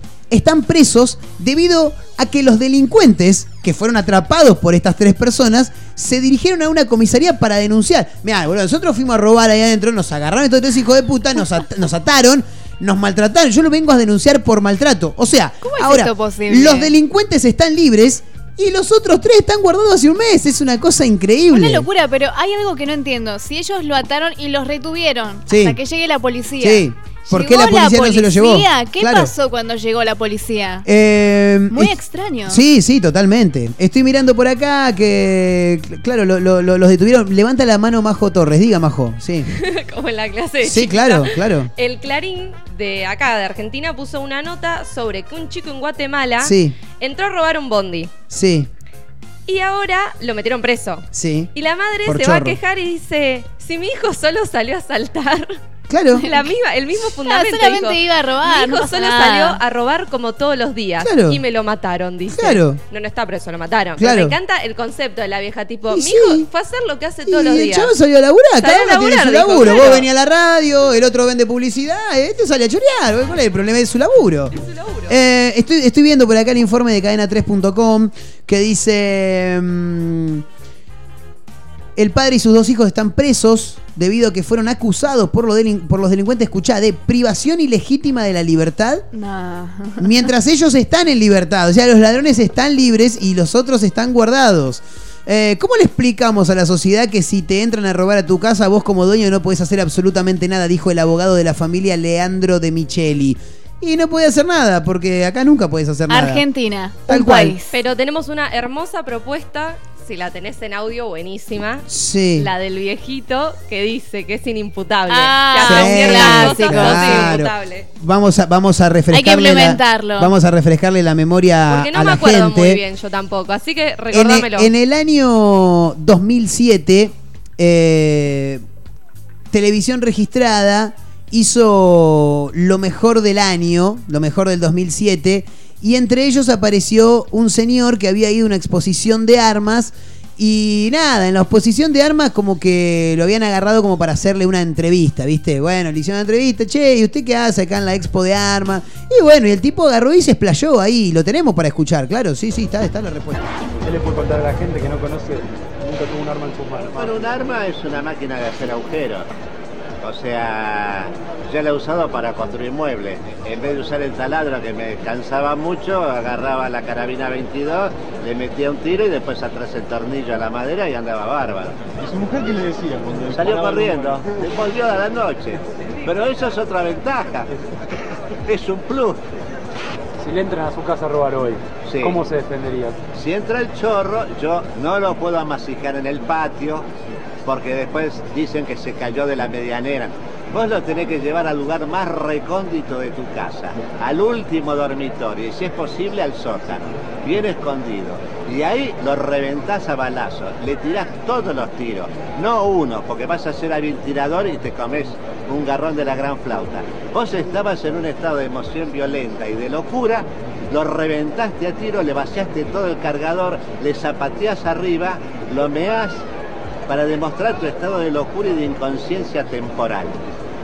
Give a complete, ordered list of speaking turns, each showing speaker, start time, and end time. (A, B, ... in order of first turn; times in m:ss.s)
0:00.3-0:21.9 A
0:15.6-0:16.9 B
0:21.5-0:30.9 B
0:25.5-0:25.8 A
0:26.6-0:29.3 A
0:30.9-0:31.9 A
0:31.7-0:32.6 B
0:32.5-0:39.5 A
0:39.5-0:48.1 C
0:40.6-0:41.7 A
0:46.4-0:46.8 A
0:48.3-0:48.7 A
0:49.5-0:55.6 C
0:51.1-0:51.5 A
0:52.1-0:52.6 A
0:55.9-0:56.2 A
0:56.2-0:56.5 B
0:56.2-1:07.9 C
0:57.2-0:59.6 B
1:01.0-1:01.4 A
1:02.3-1:02.8 A
1:04.0-1:04.4 A
1:05.9-1:06.5 A
1:07.2-1:14.5 A
1:08.6-1:10.1 C
1:14.8-1:15.1 C
1:15.1-1:20.4 A
1:22.0-1:29.0 A
1:29.1-1:30.3 B
1:30.0-1:46.4 A
1:46.1-1:47.7 B
1:47.1-1:47.6 A
1:47.7-1:51.8 C
1:51.9-1:52.5 A
1:52.4-1:57.9 C
1:55.1-1:57.4 B
1:55.6-2:02.8 A
1:59.1-2:00.3 B
2:01.7-2:04.7 C
2:04.1-2:08.6 A
2:09.5-2:33.5 A
2:33.8-2:37.2 D
2:36.9-2:39.3 E
2:40.0-2:51.8 E
2:52.0-2:54.4 D
2:53.4-2:57.5 E
2:58.5-2:59.2 E
3:00.2-3:03.1 D
3:01.8-3:02.2 E
3:03.1-3:06.9 E
3:07.4-3:36.2 E
3:36.9-3:40.2 E